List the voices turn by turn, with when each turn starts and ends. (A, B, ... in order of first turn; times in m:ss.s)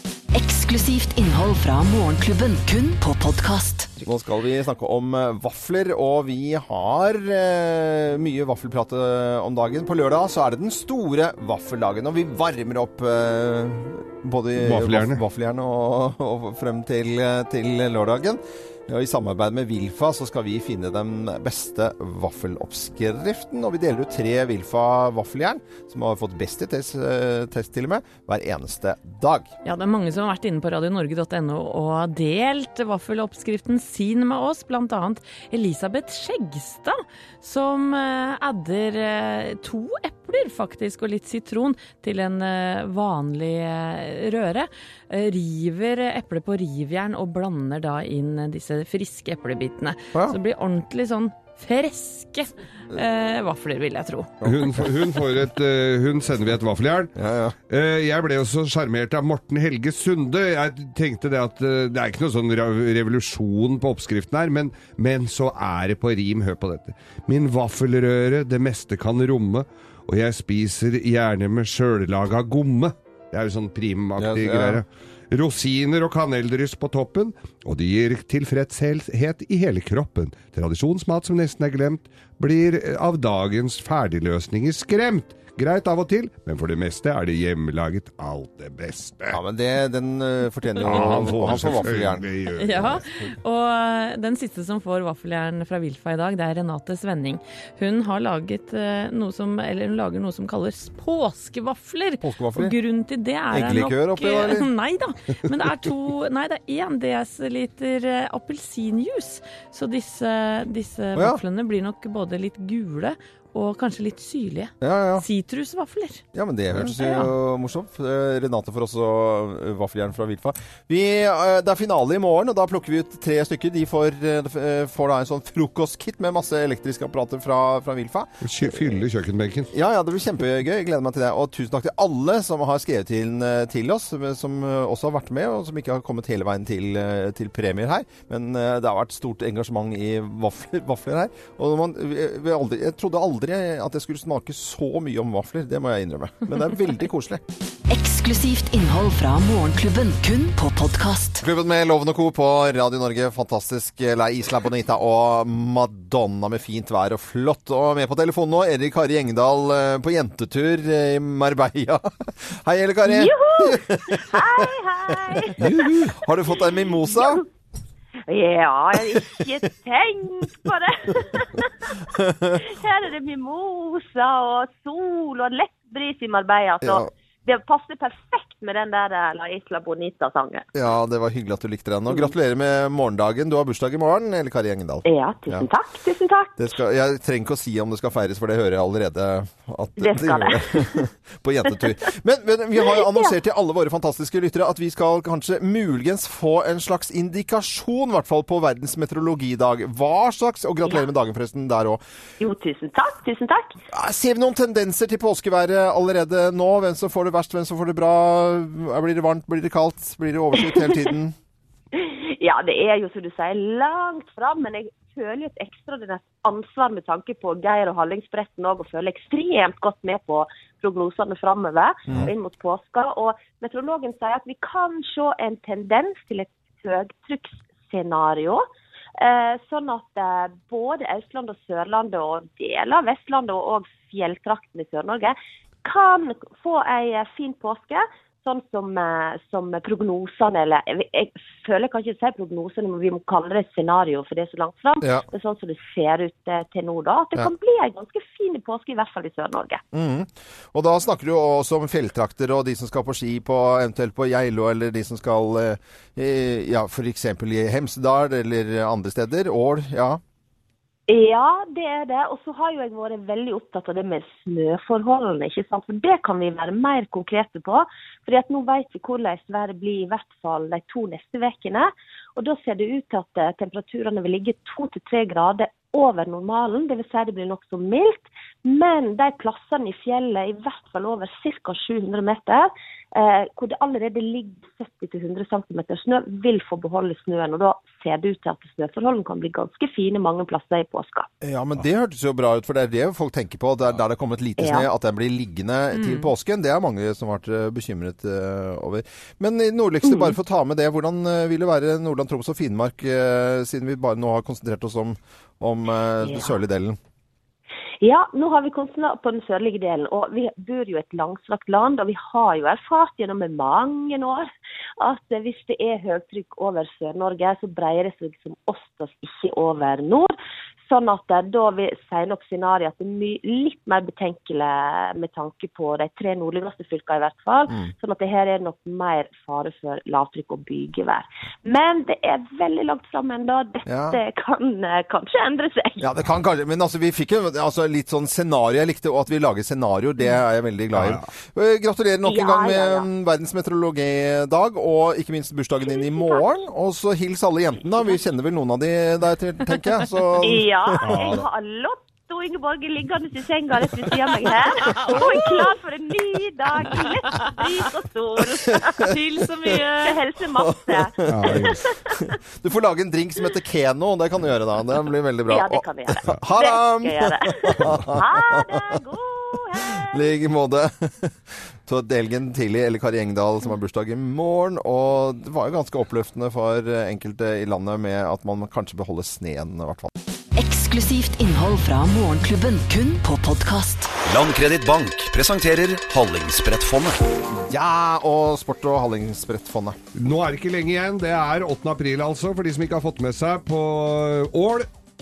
0:00.3-0:03.9 A
0:04.0-0:29.5 B
0:14.6-0:15.2 C
0:29.6-0:54.3 D
0:54.4-0:54.8 B
0:54.4-0:57.1 C
0:57.2-0:57.5 B
0:57.7-1:29.4 C
1:14.2-1:14.8 B
1:29.3-1:32.3 B
1:30.8-1:33.0 C
1:32.6-1:56.2 D
1:42.2-1:42.7 B
1:43.5-1:44.7 B
1:51.1-1:51.4 B
1:54.8-1:55.2 B
1:56.3-2:09.0 B
1:56.7-1:57.3 D
2:08.4-2:09.7 C
2:09.7-2:27.4 B
2:27.9-2:31.4 A
2:31.4-2:47.4 B
2:43.0-2:45.6 E
2:45.6-2:46.1 C
2:46.6-2:47.4 E
2:48.3-2:51.7 E
2:49.0-2:49.4 B
2:52.1-2:52.6 B
2:52.6-3:00.7 E
2:56.8-2:57.1 B
3:00.7-3:05.7 B
3:05.0-3:06.6 E
3:06.6-3:22.0 B
3:10.0-3:11.0 E
3:12.9-3:13.3 E
3:22.4-3:23.7 E
3:23.9-3:31.3 B
3:30.6-3:30.9 E
3:31.9-3:48.6 E
3:49.2-4:09.8 E
4:09.9-4:20.2 B
4:21.1-4:51.3 E
4:51.4-5:07.0 B
4:54.6-4:54.9 E
4:55.9-4:56.3 D
5:00.0-5:00.3 E
5:06.2-5:06.5 E
5:08.0-5:14.5 E
5:15.0-5:20.3 E
5:20.9-5:36.0 E
5:33.8-5:34.2 B
5:36.0-5:51.4 B
5:40.9-5:41.2 C
5:42.2-5:43.0 E
5:45.8-5:46.6 E
5:50.4-5:59.1 E
5:51.0-5:51.4 C
5:54.8-5:55.7 D
5:56.9-5:57.1 D
5:58.7-5:59.0 B
5:59.0-6:00.2 D
6:00.0-6:02.2 E
6:00.6-6:09.0 B
6:01.3-6:01.8 C
6:05.5-6:10.2 E
6:10.0-6:20.1 B
6:20.6-6:24.1 A
6:24.2-6:27.2 F
6:27.5-6:30.0 B
6:30.1-6:34.9 C